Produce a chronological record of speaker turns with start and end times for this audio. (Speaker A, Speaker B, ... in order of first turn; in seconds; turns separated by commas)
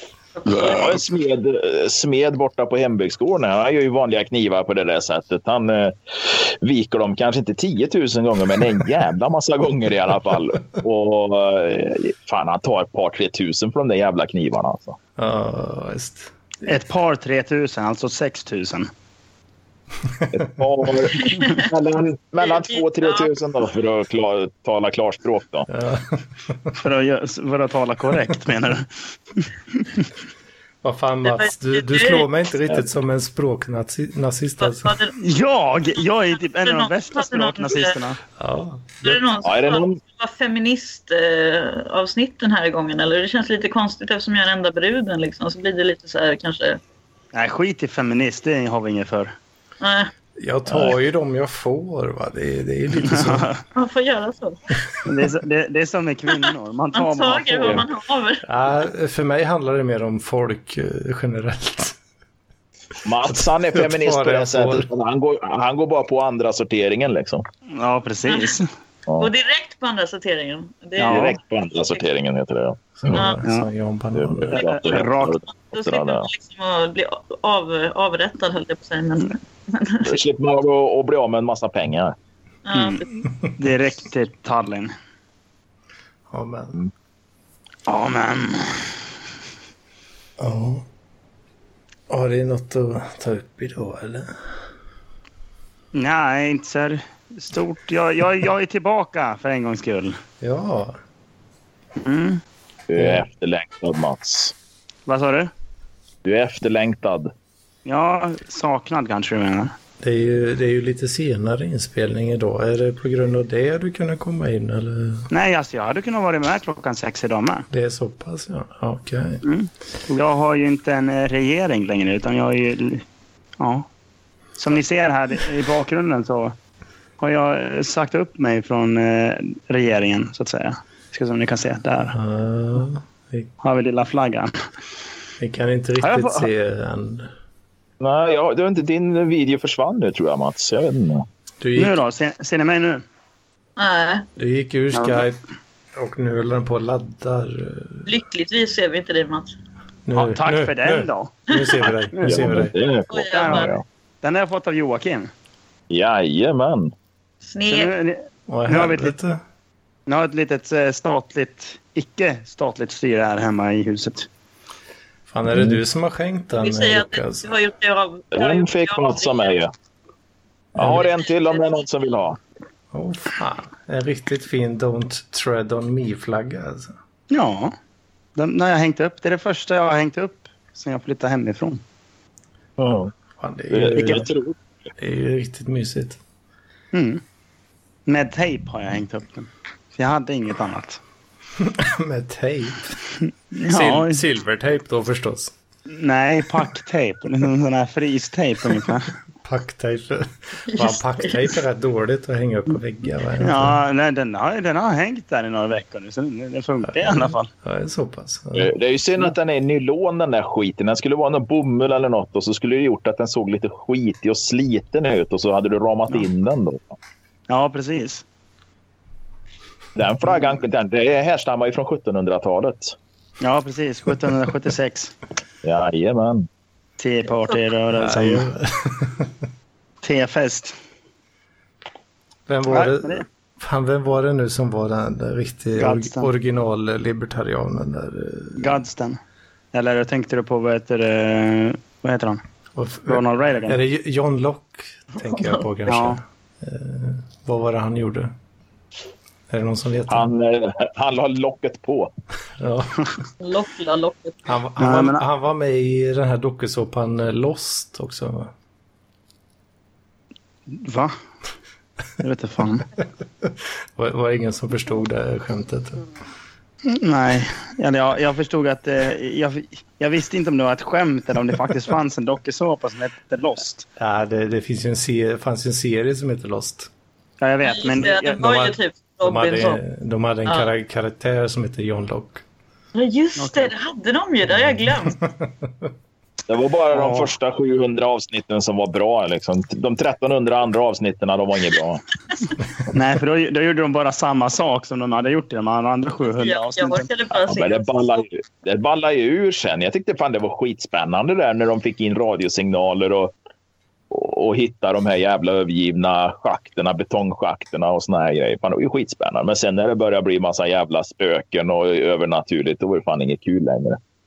Speaker A: 0.4-1.0, Speaker B: 0.5-15.0, Speaker C: 15.2-16.8, Speaker D: 16.7-18.9, Speaker B: 20.3-25.7, Speaker A: 21.2-21.7, Speaker A: 22.4-23.3, Speaker C: 25.7-26.7, Speaker D: 26.8-30.1, Speaker C: 30.8-34.9, Speaker A: 31.2-32.3, Speaker A: 34.6-35.1, Speaker D: 35.2-38.2, Speaker A: 36.3-38.0, Speaker C: 38.4-39.2, Speaker A: 39.0-46.8, Speaker B: 39.4-40.0, Speaker D: 47.3-49.3, Speaker A: 49.8-50.1, Speaker C: 50.4-53.5, Speaker B: 50.7-50.9, Speaker D: 53.0-53.6, Speaker A: 53.7-54.6, Speaker D: 55.0-57.9, Speaker A: 56.9-58.5, Speaker C: 58.5-62.0, Speaker B: 63.0-67.5, Speaker C: 63.2-64.9, Speaker D: 67.7-68.7, Speaker A: 68.3-68.6, Speaker A: 69.2-71.3, Speaker D: 71.0-71.4, Speaker B: 71.1-73.2, Speaker C: 73.0-74.6, Speaker A: 73.1-73.4, Speaker B: 74.2-76.3, Speaker D: 74.5-75.4, Speaker A: 75.6-80.2, Speaker B: 80.0-82.2, Speaker A: 82.7-83.2, Speaker D: 82.7-83.0, Speaker D: 83.6-84.9, Speaker C: 86.3-86.8, Speaker D: 87.9-88.9, Speaker C: 90.4-90.9, Speaker C: 92.1-94.3, Speaker D: 95.9-100.2, Speaker C: 100.4-101.0, Speaker D: 102.0-102.4, Speaker B: 102.9-104.5, Speaker C: 103.0-103.2, Speaker D: 105.1-105.5, Speaker B: 106.2-107.3, Speaker D: 107.8-109.7, Speaker C: 110.0-115.3, Speaker D: 115.3-117.7, Speaker C: 117.7-119.4, Speaker D: 119.4-123.0, Speaker D: 123.6-123.9, Speaker D: 124.6-126.5, Speaker D: 127.2-132.2, Speaker C: 132.1-133.5, Speaker D: 133.6-134.5, Speaker C: 135.4-137.3, Speaker D: 136.0-136.5, Speaker B: 138.0-141.2, Speaker C: 141.6-142.0, Speaker D: 141.8-143.0, Speaker A: 143.8-144.3, Speaker C: 144.4-145.4, Speaker D: 144.9-145.2, Speaker C: 146.0-148.1, Speaker A: 148.1-149.5, Speaker C: 150.1-152.7, Speaker D: 150.2-151.3, Speaker B: 152.2-153.8, Speaker A: 153.1-153.7, Speaker D: 153.2-155.3, Speaker B: 155.9-156.9, Speaker A: 157.4-157.9, Speaker D: 157.7-159.2, Speaker C: 158.5-159.4, Speaker D: 160.1-164.3, Speaker C: 165.3-167.5, Speaker B: 165.5-165.8, Speaker A: 166.6-169.6, Speaker B: 168.3-169.7, Speaker B: 170.8-172.4, Speaker C: 170.8-171.1, Speaker A: 171.0-171.7, Speaker C: 172.9-176.9, Speaker D: 177.3-177.8, Speaker D: 178.4-181.8, Speaker B: 182.8-183.1, Speaker C: 183.4-184.3, Speaker B: 183.7-184.6, Speaker C: 185.0-186.2, Speaker D: 186.9-187.2, Speaker D: 188.1-191.0, Speaker C: 191.6-193.0, Speaker D: 193.5-194.2, Speaker C: 193.6-195.5, Speaker D: 195.9-199.1, Speaker C: 199.4-203.8, Speaker A: 200.7-201.5, Speaker D: 203.4-207.5, Speaker C: 206.9-208.7, Speaker B: 208.6-216.9, Speaker D: 217.5-218.2, Speaker B: 219.9-223.0, Speaker D: 223.4-225.1, Speaker B: 225.6-226.5, Speaker D: 227.0-228.5, Speaker C: 228.0-229.3, Speaker D: 230.0-230.8, Speaker C: 232.5-238.8, Speaker D: 232.7-233.2, Speaker D: 235.8-236.3, Speaker D: 238.6-239.2, Speaker D: 239.7-242.4, Speaker C: 242.8-248.3, Speaker D: 243.1-243.8, Speaker D: 245.9-246.2, Speaker C: 249.5-250.3, Speaker B: 250.1-252.1, Speaker C: 252.6-253.1, Speaker A: 253.4-254.4, Speaker C: 254.5-258.5, Speaker D: 254.8-255.2, Speaker D: 260.7-261.1, Speaker D: 262.2-262.9, Speaker C: 263.4-266.1, Speaker D: 266.9-273.9, Speaker C: 274.0-276.9, Speaker D: 277.4-278.6, Speaker A: 277.6-279.8, Speaker C: 278.4-282.4, Speaker A: 282.9-285.2, Speaker D: 283.4-283.7, Speaker C: 285.2-285.5, Speaker B: 286.5-292.0, Speaker D: 286.9-287.3, Speaker D: 292.9-297.1, Speaker A: 296.2-298.2, Speaker B: 297.3-303.3, Speaker B: 304.1-314.0